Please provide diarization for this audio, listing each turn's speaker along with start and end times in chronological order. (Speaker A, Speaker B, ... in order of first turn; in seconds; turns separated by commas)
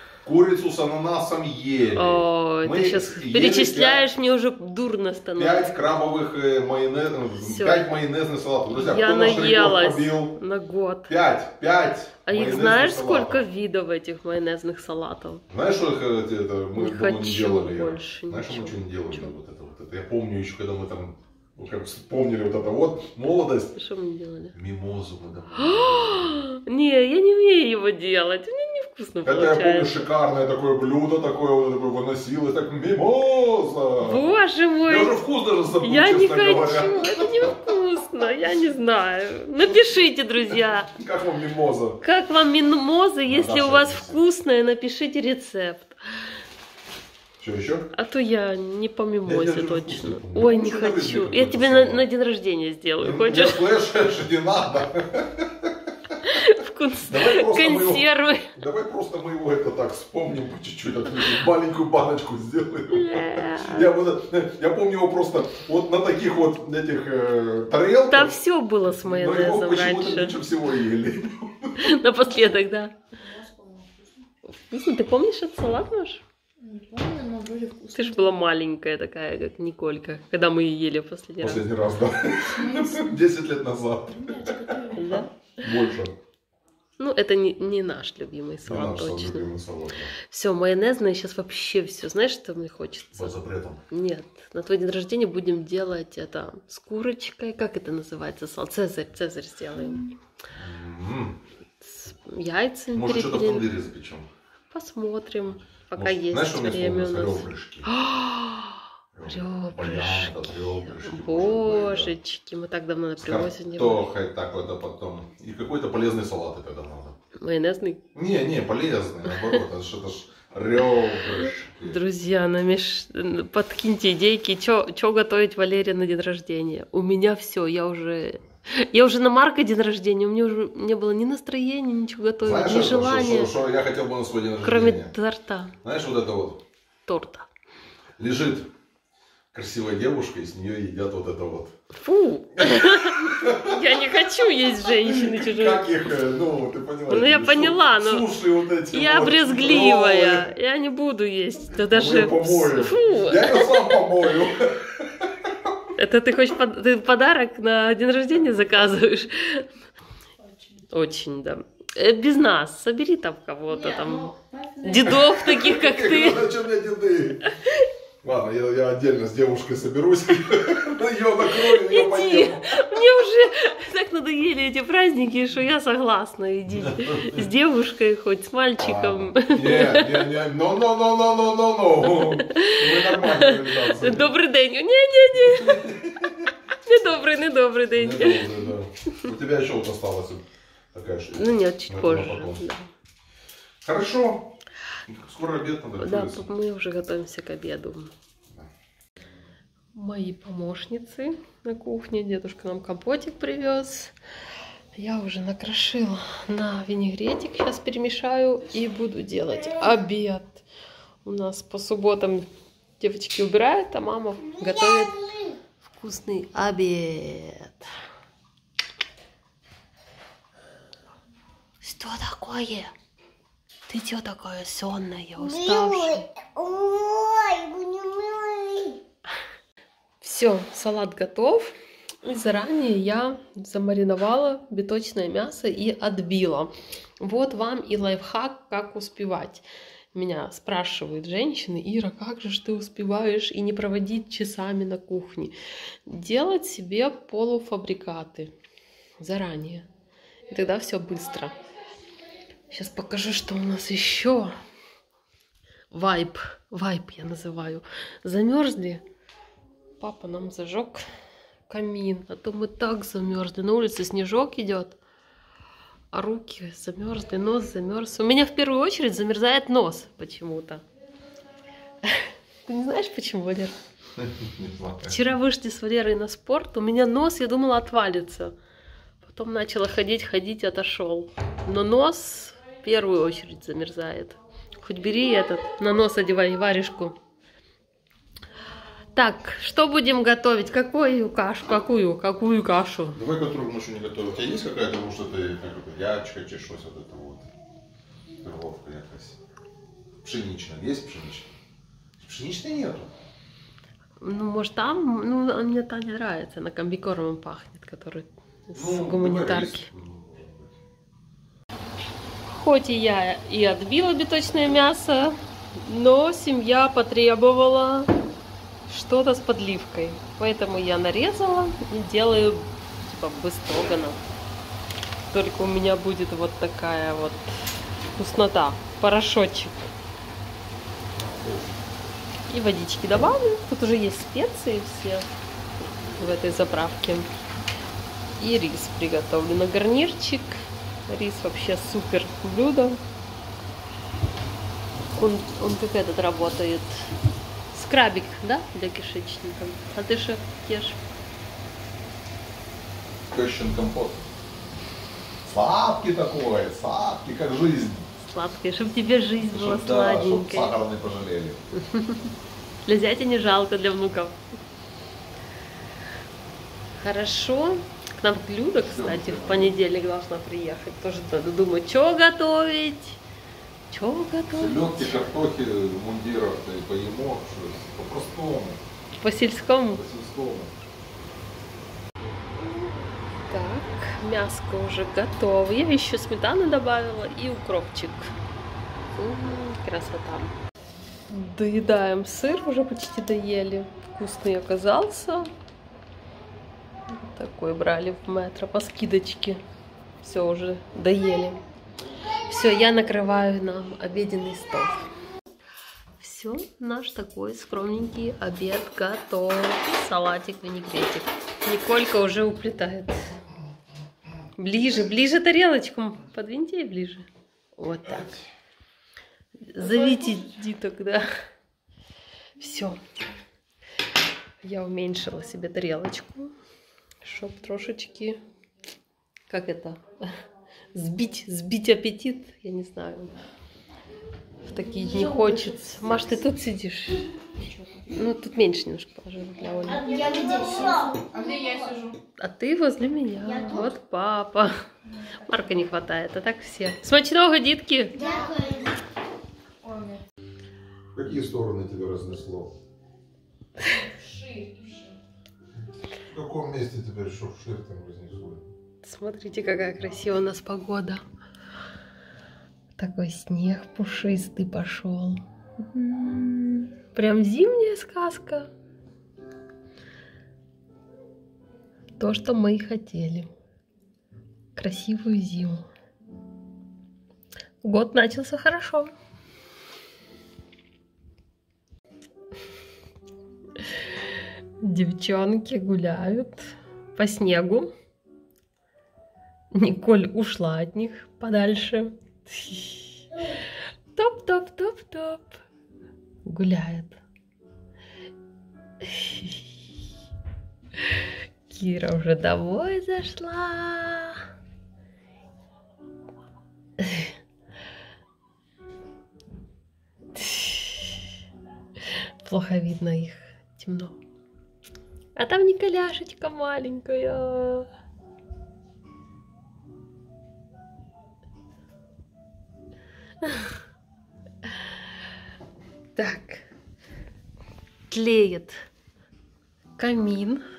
Speaker A: 0.2-4.1, Speaker B: 1.9-5.8, Speaker A: 5.3-10.4, Speaker B: 7.4-8.0, Speaker B: 8.7-11.1, Speaker A: 11.1-13.4, Speaker B: 12.2-15.4, Speaker A: 15.5-23.7, Speaker B: 16.7-19.3, Speaker B: 23.7-24.5, Speaker A: 24.5-26.4, Speaker B: 25.6-30.1, Speaker A: 29.2-34.3, Speaker B: 34.0-35.2, Speaker A: 34.9-37.6, Speaker B: 35.8-40.9, Speaker A: 40.9-42.0, Speaker B: 42.0-46.0, Speaker A: 43.2-44.2, Speaker A: 47.4-47.9, Speaker B: 47.9-53.7, Speaker A: 49.2-52.0, Speaker A: 53.0-55.7, Speaker B: 56.2-58.5, Speaker A: 57.0-68.4, Speaker B: 62.9-63.9, Speaker B: 68.1-70.4, Speaker A: 68.9-71.8, Speaker B: 71.8-72.9, Speaker C: 73.5-73.9, Speaker B: 74.5-76.2, Speaker C: 76.6-78.0, Speaker B: 77.9-81.6, Speaker A: 81.4-86.1, Speaker B: 84.9-85.3, Speaker B: 87.0-89.5, Speaker A: 88.6-90.1, Speaker B: 90.2-93.3, Speaker A: 93.1-93.8, Speaker B: 93.9-100.1, Speaker A: 100.5-101.4, Speaker B: 101.8-103.7, Speaker A: 102.9-104.3, Speaker B: 104.7-114.1, Speaker A: 105.9-107.9, Speaker A: 109.1-112.2, Speaker A: 113.2-117.2, Speaker B: 117.4-118.0, Speaker A: 118.1-122.0, Speaker B: 119.3-119.6, Speaker B: 121.2-133.5, Speaker A: 132.4-135.1, Speaker B: 134.6-135.7, Speaker A: 135.8-136.6, Speaker B: 137.1-137.5, Speaker A: 138.2-138.7, Speaker A: 139.5-141.7, Speaker B: 142.0-146.0, Speaker A: 142.6-143.8, Speaker A: 144.9-150.5, Speaker B: 147.1-148.3, Speaker B: 148.9-154.0, Speaker A: 151.8-155.5, Speaker B: 155.9-159.7, Speaker B: 160.9-166.5, Speaker C: 164.0-164.9, Speaker A: 165.2-167.4, Speaker A: 168.2-173.0, Speaker B: 171.4-180.3, Speaker A: 176.7-177.5, Speaker A: 178.8-184.3, Speaker B: 182.0-186.0, Speaker A: 185.4-186.5, Speaker B: 186.8-188.6, Speaker A: 187.9-192.7, Speaker B: 191.3-192.9, Speaker A: 193.8-194.5, Speaker A: 195.1-196.4, Speaker B: 196.0-198.1, Speaker B: 199.9-204.1, Speaker B: 204.9-210.6, Speaker B: 211.2-215.3, Speaker B: 215.8-217.9, Speaker B: 221.8-222.9, Speaker B: 223.9-226.3, Speaker C: 226.5-229.0, Speaker B: 230.2-245.5, Speaker B: 246.1-248.5, Speaker B: 249.2-249.9, Speaker B: 250.5-251.5, Speaker B: 252.7-254.5, Speaker B: 255.9-259.0, Speaker B: 260.0-261.0, Speaker B: 261.7-265.0, Speaker B: 266.1-270.8, Speaker B: 272.0-273.7, Speaker A: 274.2-275.2, Speaker B: 275.0-278.5, Speaker B: 279.2-287.1, Speaker B: 289.1-293.2, Speaker A: 293.1-297.5, Speaker A: 298.4-299.4, Speaker A: 300.2-301.5, Speaker A: 302.2-303.1, Speaker B: 304.2-309.9, Speaker A: 308.7-310.7, Speaker B: 312.5-318.1, Speaker B: 318.9-324.2, Speaker B: 325.3-327.5, Speaker B: 328.1-329.9, Speaker A: 331.1-331.9, Speaker B: 332.5-335.3, Speaker B: 336.1-337.3, Speaker B: 338.4-343.0, Speaker B: 345.1-347.1, Speaker B: 347.7-351.0, Speaker A: 353.3-354.2, Speaker A: 355.4-358.1, Speaker B: 358.2-360.8, Speaker A: 359.5-361.6, Speaker B: 361.7-362.3, Speaker B: 362.8-364.4, Speaker B: 367.0-373.2, Speaker A: 368.8-369.8, Speaker B: 373.9-375.2, Speaker A: 374.5-378.8, Speaker B: 379.2-380.0, Speaker A: 379.9-380.8, Speaker B: 383.4-388.3, Speaker B: 389.1-390.5, Speaker B: 391.3-395.5, Speaker B: 397.1-399.6, Speaker B: 400.2-401.6, Speaker B: 402.5-405.1, Speaker B: 406.2-413.2, Speaker B: 414.6-418.4, Speaker B: 419.7-421.2, Speaker B: 422.6-423.0, Speaker B: 424.6-426.5, Speaker B: 427.2-428.4, Speaker B: 429.5-430.3, Speaker B: 430.9-433.3, Speaker B: 434.6-437.2, Speaker B: 438.0-440.5, Speaker C: 440.1-442.1, Speaker B: 442.4-444.7, Speaker B: 445.4-448.3, Speaker C: 448.3-448.9, Speaker A: 451.1-452.7, Speaker C: 454.4-455.1, Speaker A: 456.2-458.6, Speaker B: 459.0-461.2, Speaker B: 462.9-468.7, Speaker B: 472.2-473.5, Speaker B: 474.7-475.8, Speaker B: 477.8-479.1, Speaker B: 484.8-487.9, Speaker B: 489.7-493.4, Speaker B: 494.1-495.6, Speaker B: 496.4-497.2, Speaker B: 499.0-499.6, Speaker B: 501.7-504.4, Speaker B: 507.0-507.3, Speaker B: 510.3-511.2, Speaker B: 512.4-514.2, Speaker B: 515.4-517.9, Speaker B: 523.4-523.7, Speaker B: 526.1-526.7, Speaker B: 528.1-528.7, Speaker B: 530.0-530.6